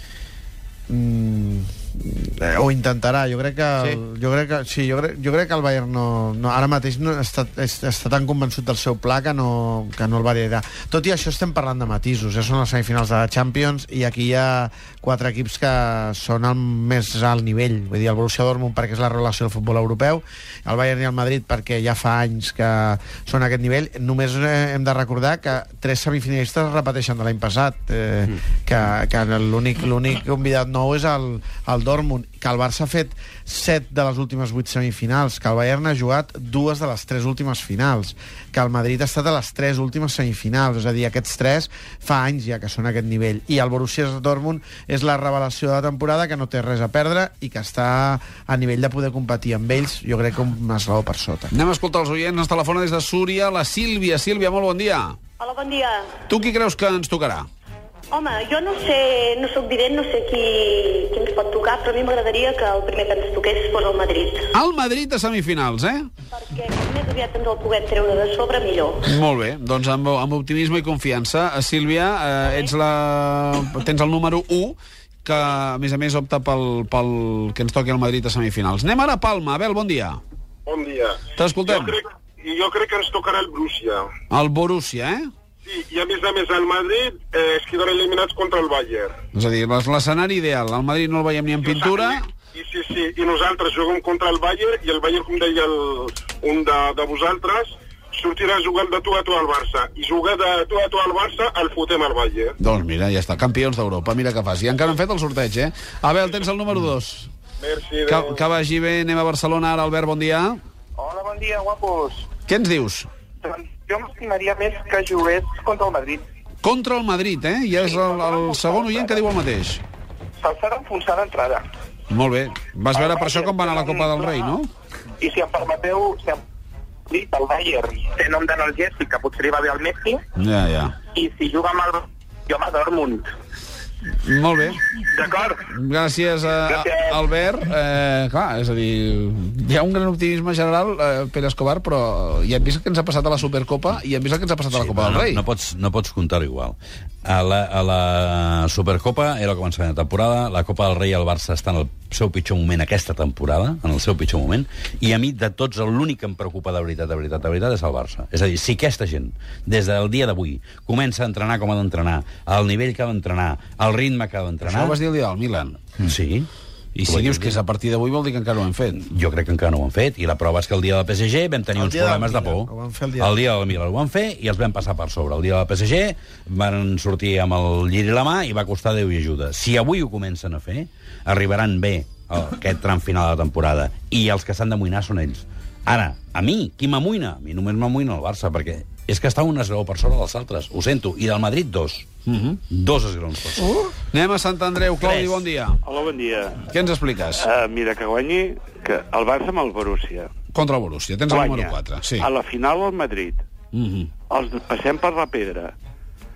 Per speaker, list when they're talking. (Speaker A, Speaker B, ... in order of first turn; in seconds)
Speaker A: 0.9-51.5, 171.7-173.4
Speaker B: 51.5-55.1, 56.3-57.5, 64.5-66.0, 69.0-80.2, 81.3-82.0, 84.3-85.3, 89.3-92.2, 102.6-107.3, 108.1-110.6, 112.5-113.1, 116.6-119.8, 122.1-124.7, 130.3-130.9, 134.2-134.8, 135.6-145.4, 164.6-165.8, 166.9-169.1, 192.2-192.6, 193.6-195.8, 196.6-197.4, 200.5-202.3, 203.7-204.1
Speaker C: 55.4-56.1, 58.1-64.5, 66.4-69.1
Speaker D: 80.7-84.1, 85.7-89.1, 91.6-102.5, 107.6-108.4
Speaker E: 111.0-112.2, 113.4-116.2, 120.4-121.7, 122.9-124.3, 125.2-126.4, 127.1-130.2, 131.1-133.3, 135.1-135.5, 136.7-137.0
Speaker F: 144.7-165.0, 166.1-166.5, 167.0-167.6, 168.9-192.1, 192.7-193.7, 195.0-195.4
Speaker G: 195.8-196.5, 197.4-200.3, 201.3-203.4, 204.3-205.7